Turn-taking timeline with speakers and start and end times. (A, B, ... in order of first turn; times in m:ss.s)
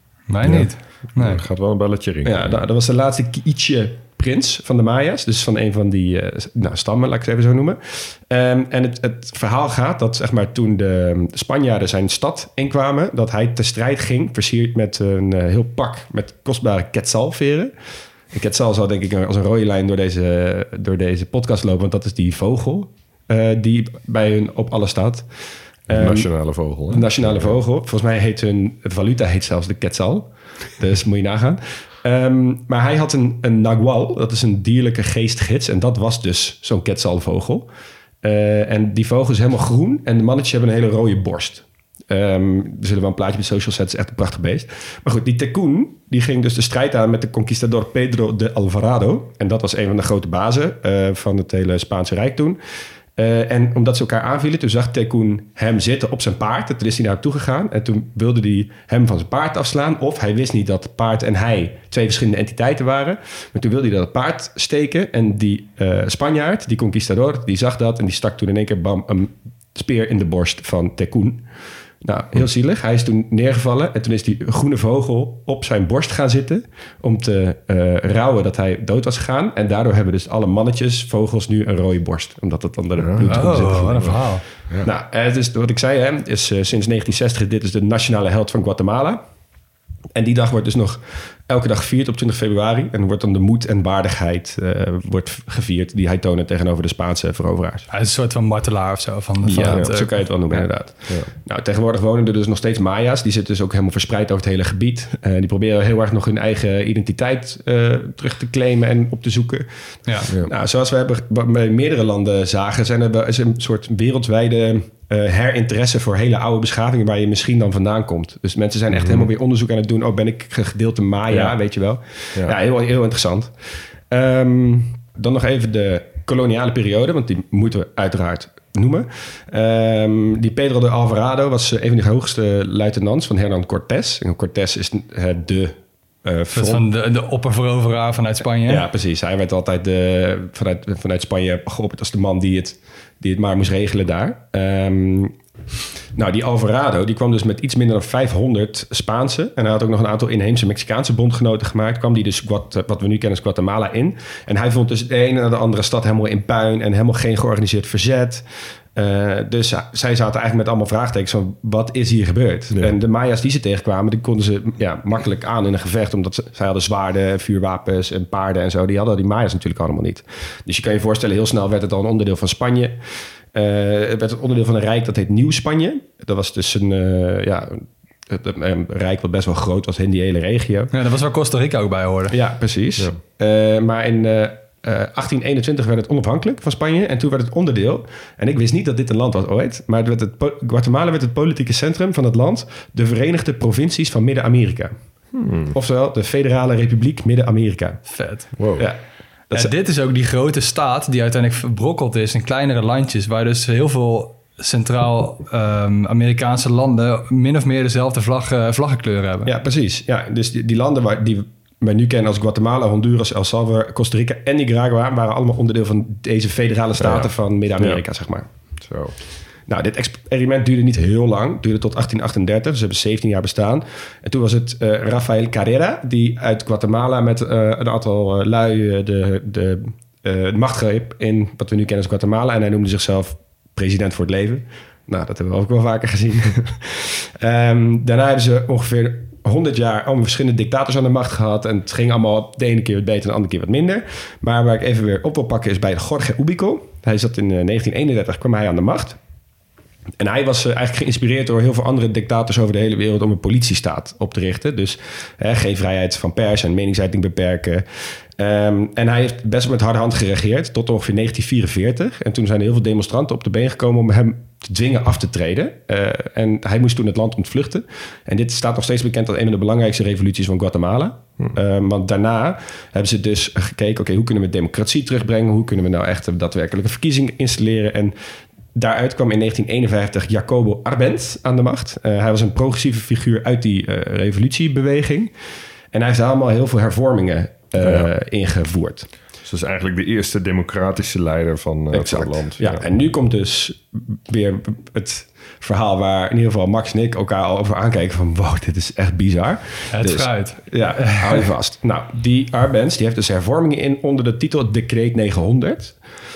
0:00.3-0:01.4 A
0:01.2-0:02.6 B
0:02.2-0:17.7 C
0:18.3-0:25.3 C
0:25.9-0:26.3 C
0:25.9-0:27.6 B
0:26.9-0:37.7 C
0:38.2-0:52.6 C
0:53.2-1:11.5 C
1:12.0-1:24.3 C
1:23.0-1:24.2 B
1:23.3-1:24.4 A
1:24.8-1:29.2 C
1:30.2-1:37.9 C
1:37.9-1:40.3 A
1:39.4-1:49.7 C
1:39.6-1:40.3 B
1:50.1-1:50.3 A
1:50.2-2:16.9 C
1:58.9-1:59.3 B
2:16.5-2:18.8 A
2:18.7-2:25.4 C
2:26.1-3:00.9 C
3:00.9-3:02.4 A
3:02.3-3:14.9 C
3:15.4-3:15.8 B
3:15.7-3:18.1 C
3:18.1-3:18.5 A
3:18.6-3:18.9 B
3:18.8-3:19.7 C
3:19.5-3:29.5 A
3:29.4-3:38.5 C
3:37.0-3:38.0 B
3:38.8-3:39.2 B
3:39.7-4:09.2 C
4:10.2-4:38.2 C
4:38.7-4:45.3 C
4:45.9-4:49.1 C
4:47.8-4:48.1 B
4:49.4-4:52.8 B
4:51.9-5:06.0 C
4:59.9-5:01.4 A